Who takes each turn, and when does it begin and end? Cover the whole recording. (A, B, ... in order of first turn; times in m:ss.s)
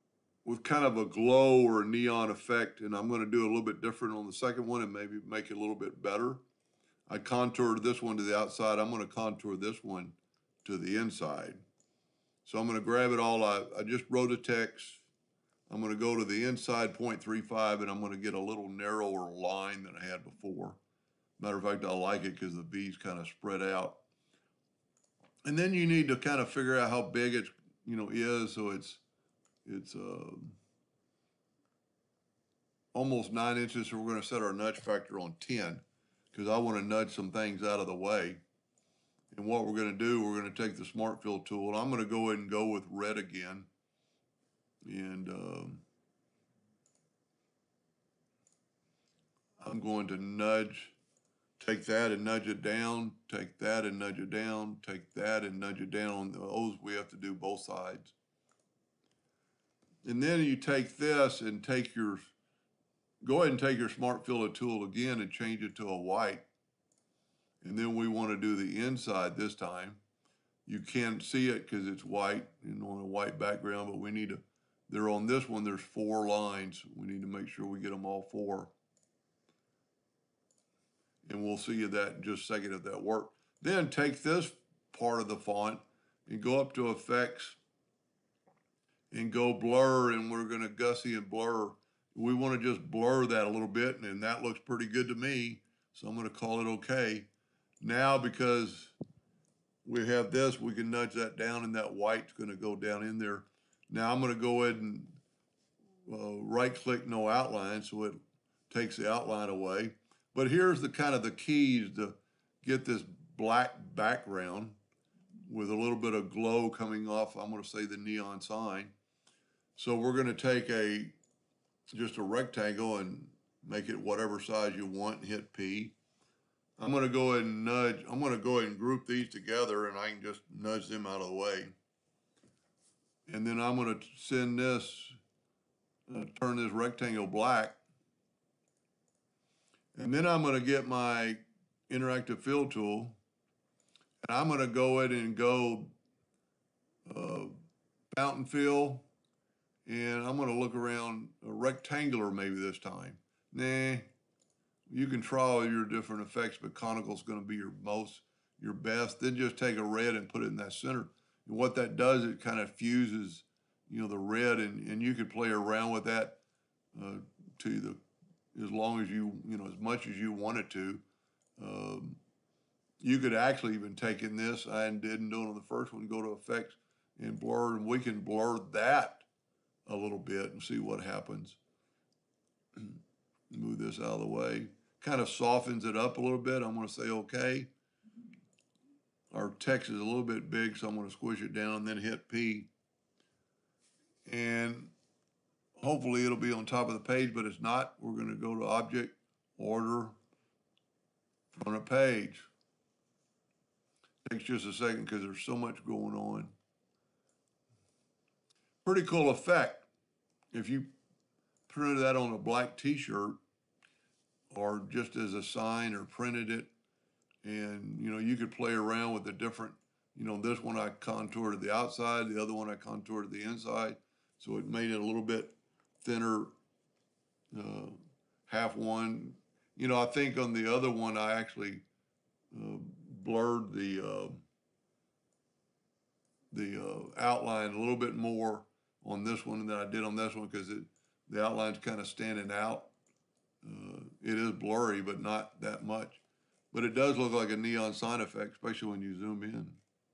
0:00.4-0:06.4 A
0:07.1-0:11.6 A
0:12.4-0:15.0 A
0:15.7-0:20.8 A
0:21.4-0:24.0 A
0:25.4-0:29.0 A
0:29.6-0:30.6 A
0:32.9-0:38.4 A
0:39.3-0:43.7 A
0:44.8-0:45.8 A
0:49.6-0:50.9 A
0:51.6-0:58.1 A
1:00.0-1:02.3 A
1:03.2-1:06.4 A
1:07.6-1:10.0 A
1:10.6-1:18.7 A
1:21.2-1:27.6 A
1:29.1-1:37.3 A
1:37.8-1:38.9 A
1:39.8-1:45.2 A
1:46.0-1:48.2 A
1:48.7-1:54.8 A
1:55.4-1:58.9 A
1:59.7-2:01.2 A
2:01.9-2:05.9 A
2:06.8-2:11.7 A
2:13.3-2:15.2 A
2:16.1-2:17.8 A
2:19.9-2:23.2 A
2:24.2-2:25.9 A
2:27.0-2:27.5 A
2:28.1-2:29.1 A
2:29.8-2:34.1 A
2:34.9-2:46.4 A
2:46.9-2:48.0 A
2:48.5-2:51.0 A
2:51.6-2:52.2 A
2:53.0-2:59.2 A
2:59.8-3:01.6 A
3:03.5-3:07.7 A
3:09.3-3:12.7 A
3:14.2-3:14.9 A
3:15.8-3:20.2 A
3:21.5-3:22.5 A
3:24.2-3:26.5 A
3:28.8-3:29.9 A
3:30.5-3:30.9 A
3:31.7-3:33.4 A
3:34.5-3:36.7 A
3:37.4-3:46.5 A
3:47.5-3:51.8 A
3:52.5-3:54.4 A
3:56.5-4:02.9 A
4:03.6-4:06.2 A
4:06.7-4:09.8 A